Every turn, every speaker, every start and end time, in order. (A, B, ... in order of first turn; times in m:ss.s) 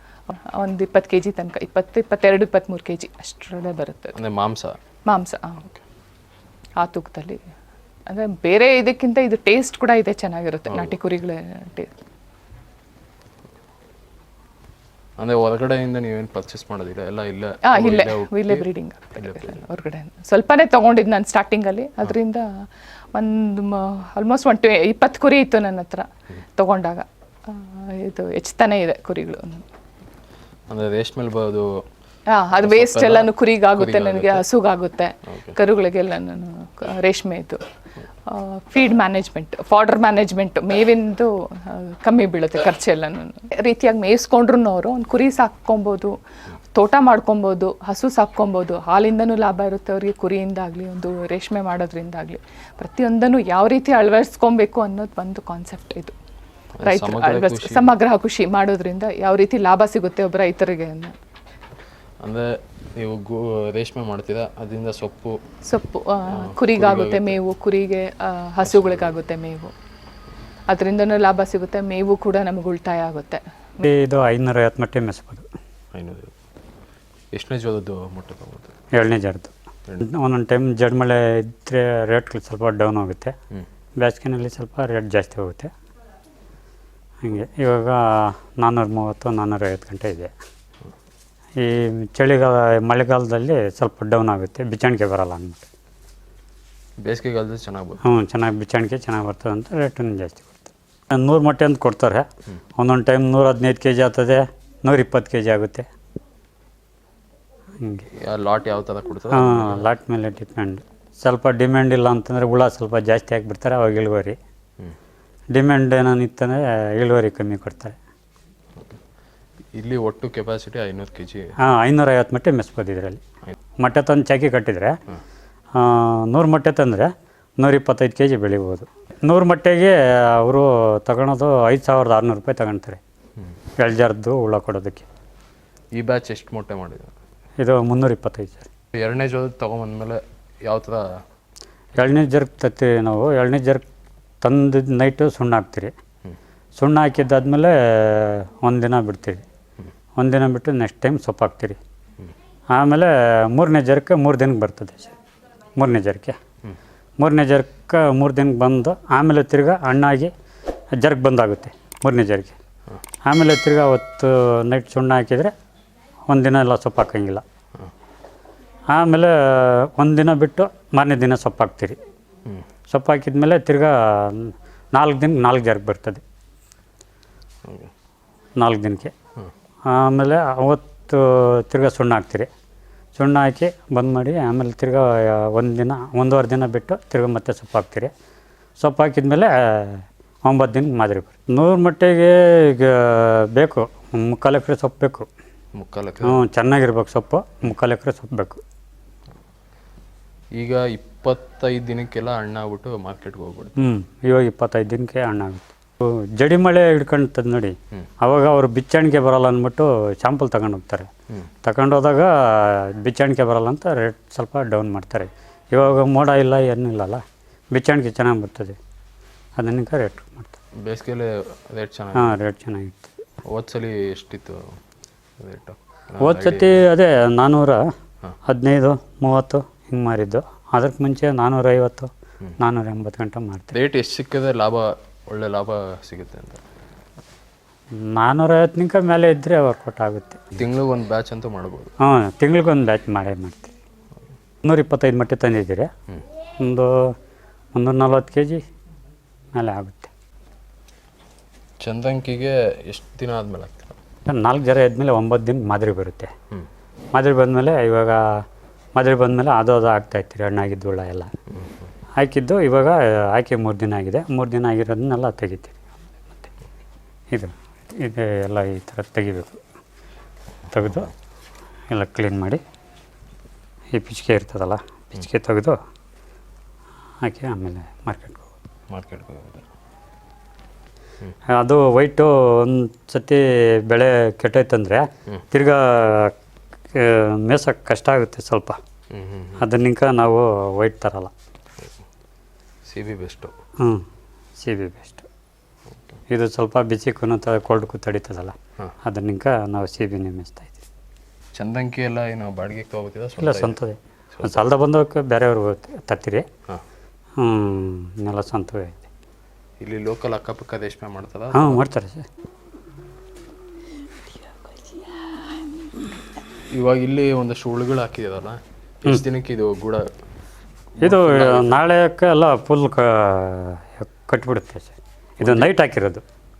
0:00.3-0:04.2 A
0:04.1-0:04.8 B
0:05.0-0:05.7 A
0:06.8-0:07.4 A
0:08.1-0:11.9 A
0:15.2-0:18.6 B
0:17.6-0:29.6 A
0:19.2-0:19.6 B
0:30.7-0:31.8 B
0:32.3-0:37.6 A
0:32.6-0:34.4 B
0:35.3-0:35.5 B
0:38.2-0:46.2 A
0:46.7-0:56.1 A
0:56.8-0:57.9 B
0:56.8-1:01.1 A
1:02.2-1:05.4 B
1:05.6-1:09.7 A
1:06.3-1:07.4 B
1:08.6-1:09.1 B
1:10.7-1:13.9 A
1:13.8-1:15.4 C
1:15.9-1:16.3 B
1:17.3-1:18.7 B
1:18.9-1:23.3 C
1:24.0-1:25.7 C
1:27.2-1:30.3 C
1:31.6-1:35.6 C
1:37.0-1:38.0 B
1:38.0-1:42.2 C
1:42.8-1:45.8 C
1:47.8-1:48.1 C
1:48.2-1:49.9 B
1:49.3-1:54.4 C
1:55.5-1:58.0 C
1:59.7-2:01.5 B
2:01.6-2:03.2 C
2:03.8-2:05.0 C
2:05.8-2:13.0 C
2:13.8-2:15.0 C
2:15.9-2:17.1 B
2:17.6-2:18.7 C
2:18.9-2:21.2 B
2:22.0-2:23.8 C
2:24.4-2:25.9 C
2:26.8-2:29.4 C
2:30.2-2:31.8 C
2:32.7-2:35.1 C
2:35.8-2:36.4 C
2:37.2-2:40.3 C
2:41.0-2:42.5 C
2:43.2-2:45.5 C
2:46.3-2:47.4 C
2:48.9-2:52.0 C
2:52.9-2:56.2 C
2:57.6-2:57.9 B
2:58.6-2:59.1 C
2:59.9-3:02.5 C
3:03.2-3:08.1 C
3:08.8-3:15.3 C
3:15.7-3:16.4 B
3:16.2-3:18.6 C
3:20.6-3:23.8 B
3:23.8-3:31.1 C
3:31.6-3:38.8 C
3:39.6-3:40.5 C
3:40.8-3:42.4 B
3:42.1-3:43.1 C
3:43.5-3:44.7 B
3:45.4-3:46.8 B
3:46.2-3:47.8 C
3:48.4-3:53.7 C
3:53.7-3:56.6 B
3:58.0-4:00.5 C
4:00.6-4:01.9 B
4:02.0-4:03.7 C
4:04.6-4:05.9 C
4:06.6-4:07.1 C
4:07.7-4:08.6 C
4:09.5-4:10.1 C
4:11.8-4:14.0 B
4:14.3-4:16.3 C
4:17.1-4:18.4 C
4:19.0-4:21.3 C
4:22.2-4:26.5 C
4:27.3-4:29.6 C
4:30.7-4:31.1 C
4:31.9-4:32.6 C
4:33.9-4:35.8 C
4:37.2-4:38.4 C
4:38.9-4:39.6 B
4:41.5-4:46.3 C
4:46.9-4:48.8 C
4:49.1-4:49.6 B
4:49.6-4:51.3 C
4:52.8-4:53.5 B
4:54.6-4:55.3 C
4:56.3-5:00.8 C
5:01.5-5:03.8 B
5:03.4-5:06.4 C
5:04.3-5:04.7 B
5:07.4-5:09.0 C
5:09.8-5:11.8 B
5:11.5-5:12.2 C
5:15.0-5:15.4 C
5:16.7-5:20.0 B
5:21.0-5:21.8 B
5:21.0-5:26.2 C
5:25.4-5:25.7 B